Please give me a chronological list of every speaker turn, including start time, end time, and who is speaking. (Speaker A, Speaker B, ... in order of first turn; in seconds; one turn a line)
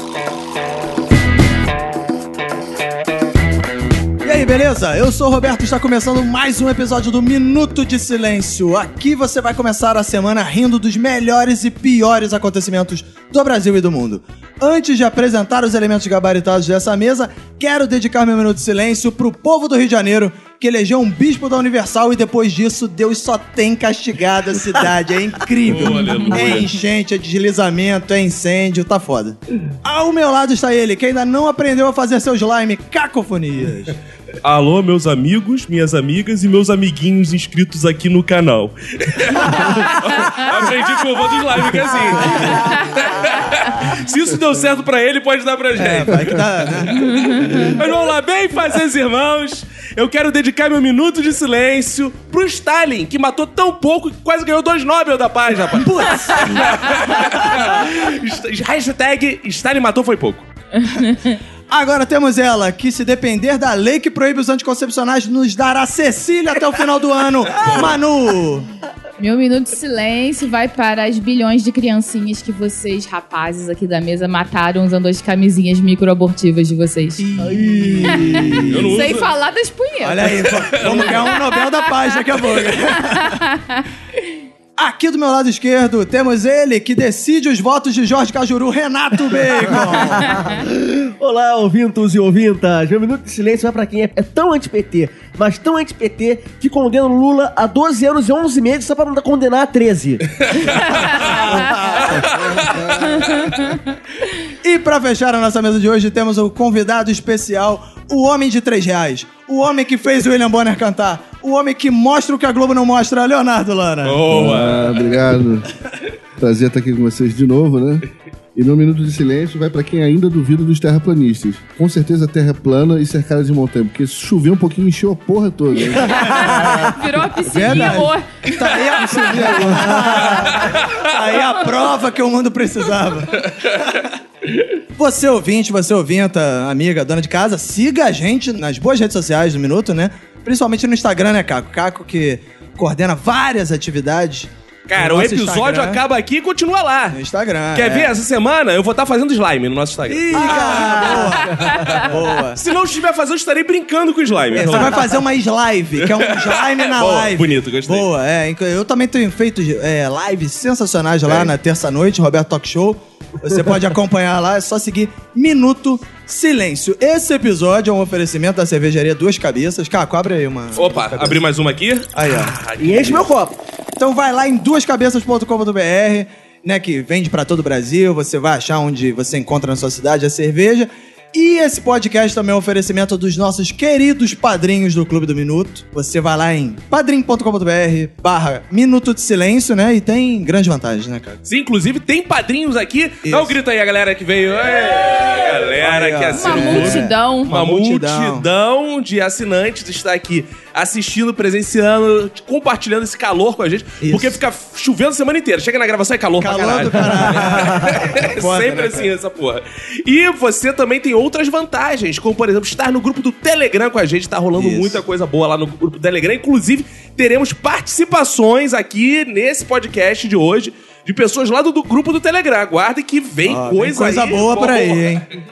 Speaker A: 4.2-34.0
Speaker B: 25.7-26.7
Speaker B: 34.4-60.5
Speaker A: 42.2-42.7
Speaker A: 45.7-47.6
Speaker C: 47.1-47.5
Speaker A: 55.7-57.9
Speaker C: 60.8-61.4
Speaker A: 61.7-68.7
Speaker B: 67.5-68.0
Speaker C: 69.2-77.2
Speaker A: 77.2-79.1
Speaker D: 77.4-78.4
Speaker B: 78.5-79.3
Speaker C: 78.9-81.9
Speaker A: 80.0-83.4
Speaker B: 80.3-81.3
Speaker C: 83.1-83.8
Speaker A: 84.8-90.5
Speaker D: 89.7-101.1
Speaker C: 100.8-102.0
Speaker A: 101.2-102.8
Speaker B: 102.1-102.6
Speaker E: 102.6-103.4
Speaker C: 103.0-103.9
Speaker A: 104.6-114.2
Speaker B: 114.0-115.1
Speaker E: 114.3-115.7
Speaker E: 116.4-126.8
Speaker A: 126.2-134.1
Speaker C: 126.9-128.7
Speaker E: 127.6-128.1
Speaker E: 129.1-130.2
Speaker D: 129.8-130.6
Speaker B: 130.6-131.0
Speaker A: 134.9-146.0
Speaker B: 144.9-147.2
Speaker A: 147.1-148.1
Speaker B: 147.7-155.0
Speaker D: 150.1-152.1
Speaker A: 150.3-152.6
Speaker A: 154.5-171.4
Speaker D: 154.6-155.0
Speaker B: 156.0-158.1
Speaker B: 161.2-161.5
Speaker B: 170.7-173.2
Speaker A: 172.1-173.2
Speaker D: 172.8-173.6
Speaker A: 174.0-191.4
Speaker B: 191.4-225.2
Speaker A: 193.2-193.6
Speaker A: 195.8-198.5
Speaker C: 196.3-197.5
Speaker A: 204.0-204.4
Speaker A: 206.4-209.1
Speaker D: 207.1-207.5
Speaker D: 214.6-215.0
Speaker A: 223.4-225.2